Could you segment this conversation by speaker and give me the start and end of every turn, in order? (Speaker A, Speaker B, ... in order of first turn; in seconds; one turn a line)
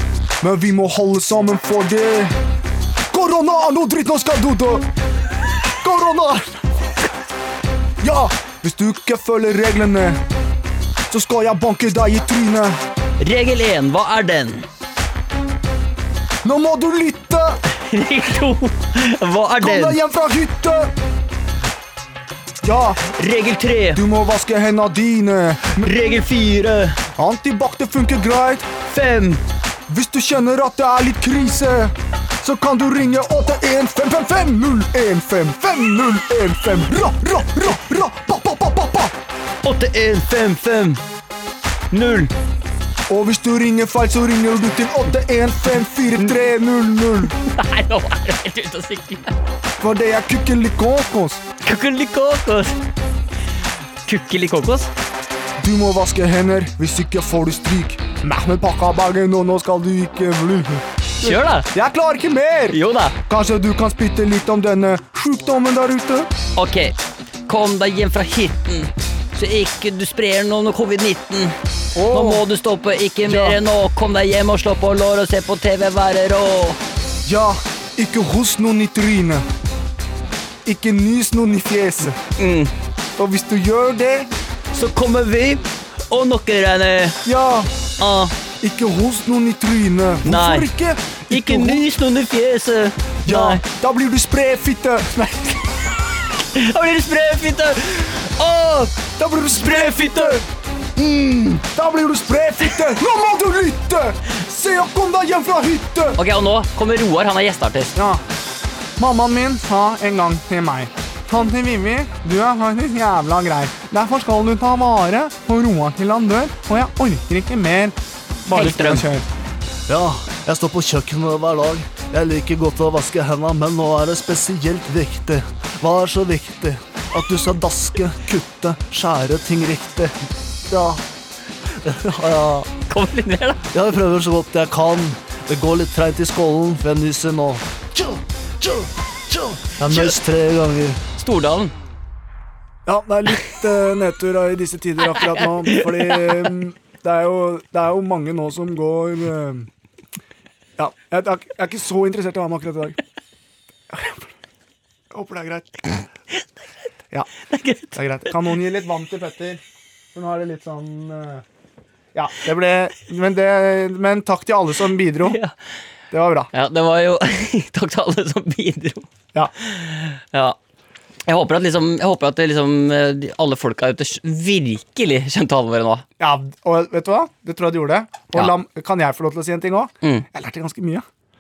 Speaker A: 0.4-2.4
Speaker A: 3.1-4.9
Speaker A: 5.8-6.7
Speaker A: 8.0-10.2
Speaker A: 11.1-12.8
Speaker B: 13.2-14.7
Speaker A: 16.4-17.6
Speaker B: 17.7-20.0
Speaker A: 19.6-20.9
Speaker A: 22.6-23.0
Speaker B: 23.1-24.0
Speaker A: 23.9-25.9
Speaker B: 25.8-27.0
Speaker A: 27.1-28.7
Speaker B: 28.9-29.4
Speaker A: 29.9-39.1
Speaker B: 39.6-41.0
Speaker B: 41.9-42.3
Speaker A: 43.1-47.3
Speaker B: 47.4-49.3
Speaker A: 49.8-51.4
Speaker B: 51.6-52.8
Speaker B: 54.0-54.9
Speaker A: 55.6-66.3
Speaker B: 61.2-61.7
Speaker B: 62.7-63.2
Speaker B: 66.5-71.5
Speaker A: 71.9-72.5
Speaker B: 72.1-76.8
Speaker A: 73.2-73.6
Speaker A: 77.2-79.5
Speaker A: 80.6-82.2
Speaker B: 82.4-82.7
Speaker A: 83.2-84.3
Speaker B: 84.7-87.2
Speaker A: 87.2-87.7
Speaker B: 88.0-88.3
Speaker A: 88.6-91.9
Speaker B: 90.2-90.7
Speaker B: 91.3-93.6
Speaker A: 93.2-95.8
Speaker B: 96.4-99.0
Speaker A: 99.2-100.4
Speaker B: 99.6-100.4
Speaker A: 101.6-106.2
Speaker B: 106.2-107.9
Speaker A: 107.9-108.2
Speaker A: 109.0-119.3
Speaker B: 118.5-119.1
Speaker C: 119.9-130.1
Speaker C: 130.7-131.0
Speaker C: 131.8-132.7
Speaker B: 132.9-133.6
Speaker C: 133.7-141.0
Speaker B: 141.2-141.7
Speaker A: 142.8-149.7
Speaker B: 145.0-146.5
Speaker A: 150.8-153.0
Speaker A: 153.9-154.3
Speaker A: 155.1-156.1
Speaker B: 157.5-158.3
Speaker A: 157.9-159.6
Speaker A: 160.1-161.4
Speaker A: 162.1-165.4
Speaker B: 165.2-165.5
Speaker A: 166.1-166.5
Speaker B: 166.5-169.1
Speaker B: 169.6-170.6
Speaker B: 171.3-176.0
Speaker A: 176.2-181.0